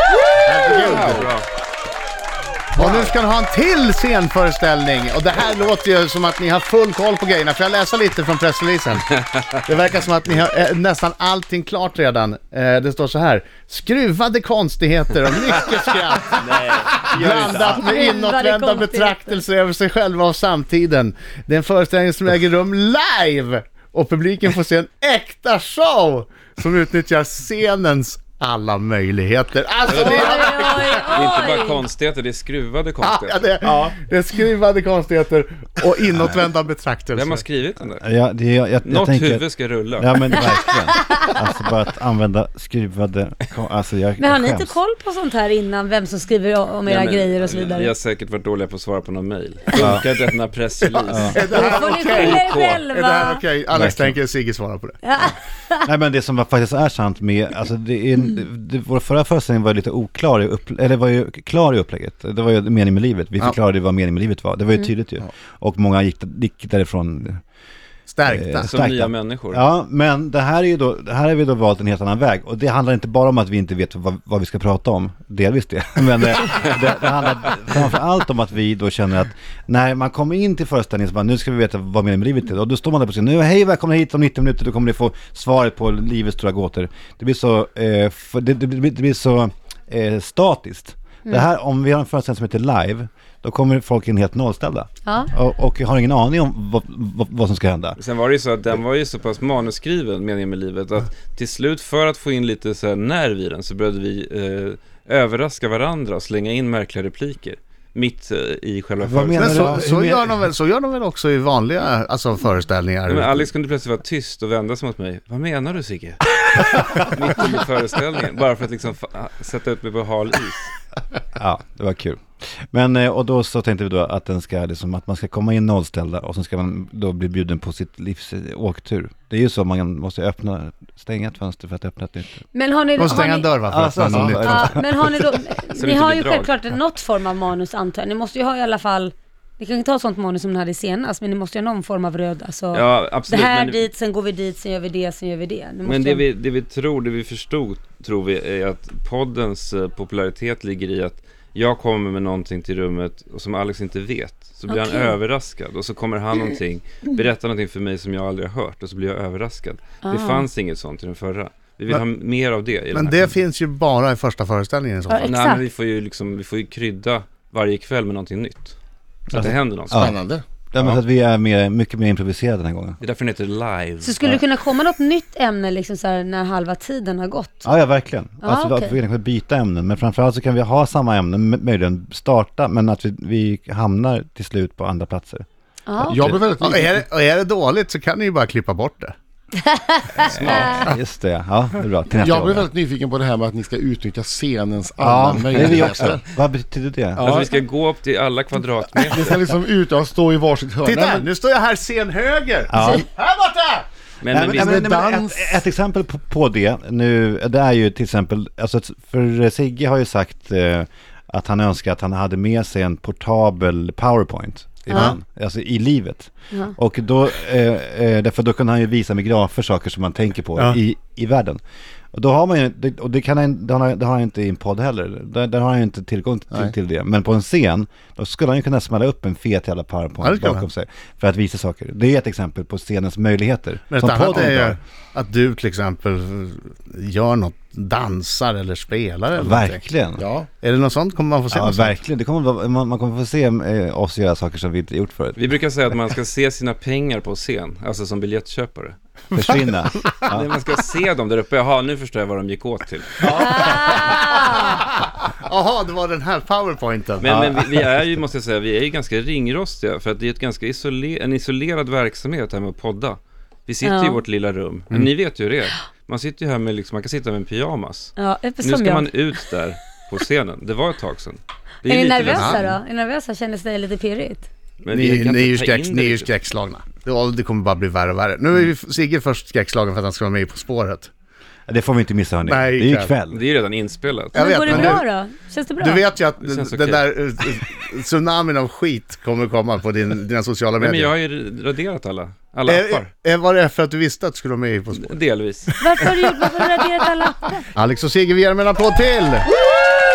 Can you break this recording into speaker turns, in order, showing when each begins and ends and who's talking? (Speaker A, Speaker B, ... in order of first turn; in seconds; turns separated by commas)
Speaker A: 0.5-1.3, Speaker B: 0.5-1.3, Speaker C: 0.8-1.4, Speaker A: 2.8-9.1, Speaker B: 2.8-3.1, Speaker A: 9.6-31.4, Speaker C: 16.3-17.7, Speaker D: 17.1-17.7, Speaker E: 17.7-19.4, Speaker C: 29.9-30.5, Speaker E: 29.9-31.9, Speaker C: 31.1-33.4, Speaker A: 33.0-37.4, Speaker D: 33.6-33.9, Speaker D: 36.1-36.4, Speaker C: 37.1-38.0, Speaker D: 38.0-44.8, Speaker C: 38.8-40.7, Speaker E: 40.9-41.4, Speaker E: 44.2-47.9, Speaker C: 46.9-52.8, Speaker D: 49.8-50.0, Speaker A: 50.9-55.0, Speaker D: 51.1-51.4, Speaker E: 51.5-53.4, Speaker D: 53.7-54.2, Speaker E: 55.0-55.9, Speaker D: 55.8-67.4, Speaker A: 68.1-68.7, Speaker D: 68.3-98.0, Speaker C: 68.6-69.6, Speaker E: 95.0-95.3, Speaker C: 98.0-109.8, Speaker D: 109.0-110.3, Speaker A: 109.4-113.5, Speaker C: 113.1-120.8, Speaker D: 121.4-132.4, Speaker E: 132.5-133.5, Speaker A: 133.0-134.7, Speaker D: 133.1-135.2, Speaker E: 134.3-146.2, Speaker C: 135.8-136.6, Speaker C: 142.7-143.9, Speaker C: 145.8-163.3, Speaker E: 154.7-155.1, Speaker E: 160.0-160.4, Speaker A: 162.9-165.3, Speaker E: 165.1-165.6, Speaker C: 165.2-168.8, Speaker C: 169.3-170.1, Speaker D: 169.3-170.2, Speaker B: 169.9-170.4, Speaker D: 170.7-173.0, Speaker C: 170.8-171.0, Speaker C: 173.0-174.2, Speaker E: 174.0-177.7, Speaker D: 177.6-185.5, Speaker E: 178.4-179.0, Speaker E: 185.9-186.3, Speaker B: 186.0-187.0, Speaker A: 186.6-189.1, Speaker E: 189.6-190.9, Speaker D: 190.2-192.7, Speaker B: 190.4-190.8, Speaker B: 192.1-196.2, Speaker D: 195.0-197.3, Speaker C: 197.2-199.5, Speaker B: 197.2-197.5, Speaker B: 199.0-201.3, Speaker A: 200.8-203.9, Speaker D: 202.7-203.0, Speaker C: 204.2-204.8, Speaker D: 204.3-221.6, Speaker B: 204.5-205.6, Speaker E: 214.9-215.2, Speaker D: 222.1-234.8, Speaker A: 230.2-230.7, Speaker A: 233.9-239.8, Speaker D: 239.4-240.2, Speaker B: 240.2-240.5, Speaker A: 240.6-242.0, Speaker D: 241.5-245.4, Speaker C: 245.4-249.0, Speaker D: 249.3-250.5, Speaker A: 249.3-249.6, Speaker C: 250.3-253.4, Speaker D: 253.2-254.2, Speaker A: 253.3-257.2, Speaker E: 253.4-254.8, Speaker C: 257.2-272.7, Speaker D: 257.2-257.9, Speaker E: 263.8-264.2, Speaker E: 268.2-269.3, Speaker E: 271.8-274.5, Speaker A: 272.2-272.6, Speaker C: 274.8-276.3, Speaker A: 274.9-281.1, Speaker D: 281.7-283.4, Speaker A: 282.4-283.1, Speaker C: 283.3-285.0, Speaker E: 284.3-286.0, Speaker A: 284.4-285.0, Speaker A: 285.8-291.1, Speaker C: 286.4-287.1, Speaker C: 290.8-293.1, Speaker A: 292.6-295.2, Speaker C: 294.9-295.9, Speaker E: 295.8-297.6, Speaker A: 297.8-299.5